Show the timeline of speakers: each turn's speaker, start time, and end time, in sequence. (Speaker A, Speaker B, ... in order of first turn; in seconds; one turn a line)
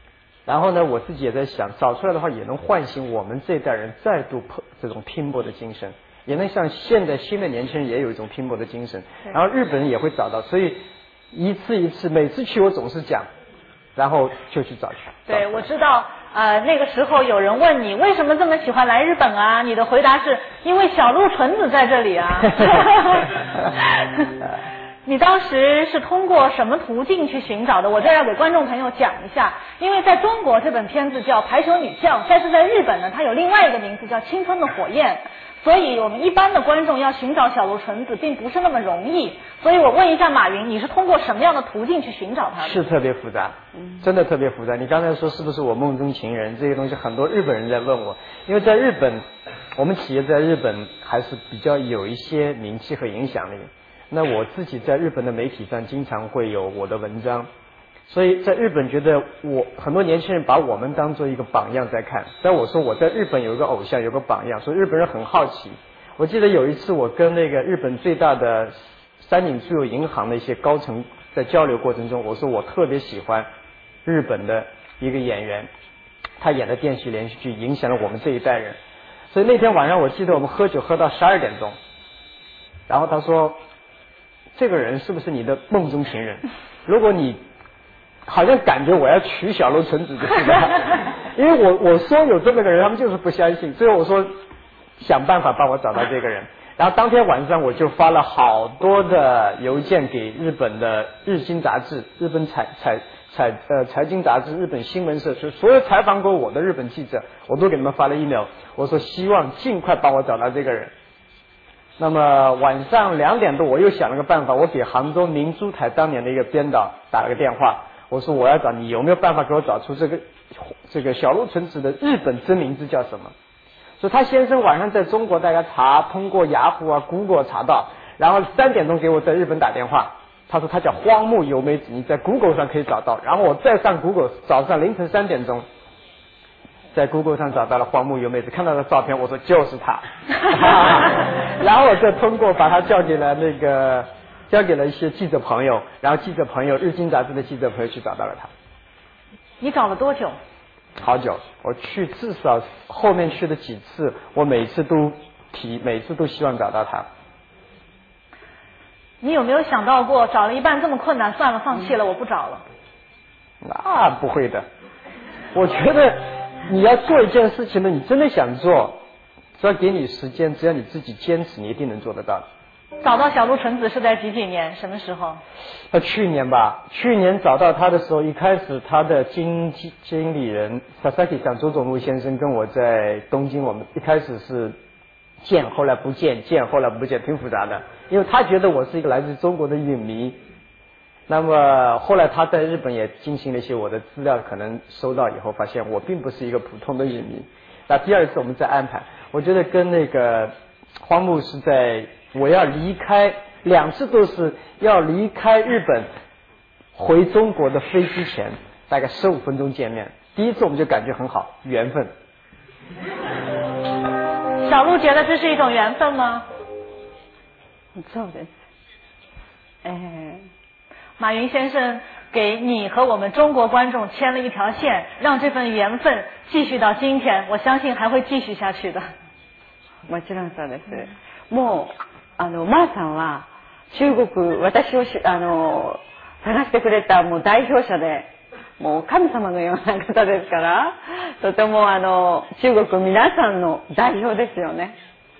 Speaker A: 0.5-13.3
Speaker A: 13.9-15.6
Speaker B: 15.3-24.3
Speaker B: 25.0-42.8
Speaker A: 42.6-49.2
Speaker A: 49.8-57.5
Speaker A: 58.1-73.5
Speaker A: 74.0-75.7
Speaker A: 76.4-78.8
Speaker A: 79.3-81.8
Speaker A: 82.9-83.6
Speaker A: 84.5-87.4
Speaker A: 88.3-94.3
Speaker A: 95.0-110.9
Speaker A: 112.0-123.3
Speaker A: 124.0-135.6
Speaker A: 136.9-148.5
Speaker B: 149.6-150.3
Speaker A: 151.0-157.1
Speaker B: 159.2-162.6
Speaker A: 163.6-164.6
Speaker A: 165.5-169.0
Speaker A: 169.6-172.4
Speaker B: 173.0-175.4
Speaker A: 175.9-184.7
Speaker A: 185.4-190.4
Speaker A: 191.3-200.5
Speaker A: 201.0-206.1
Speaker A: 206.9-212.1
Speaker B: 214.6-216.4
Speaker C: 217.9-218.5
Speaker C: 219.8-220.5
Speaker B: 221.2-229.0
Speaker C: 230.1-244.9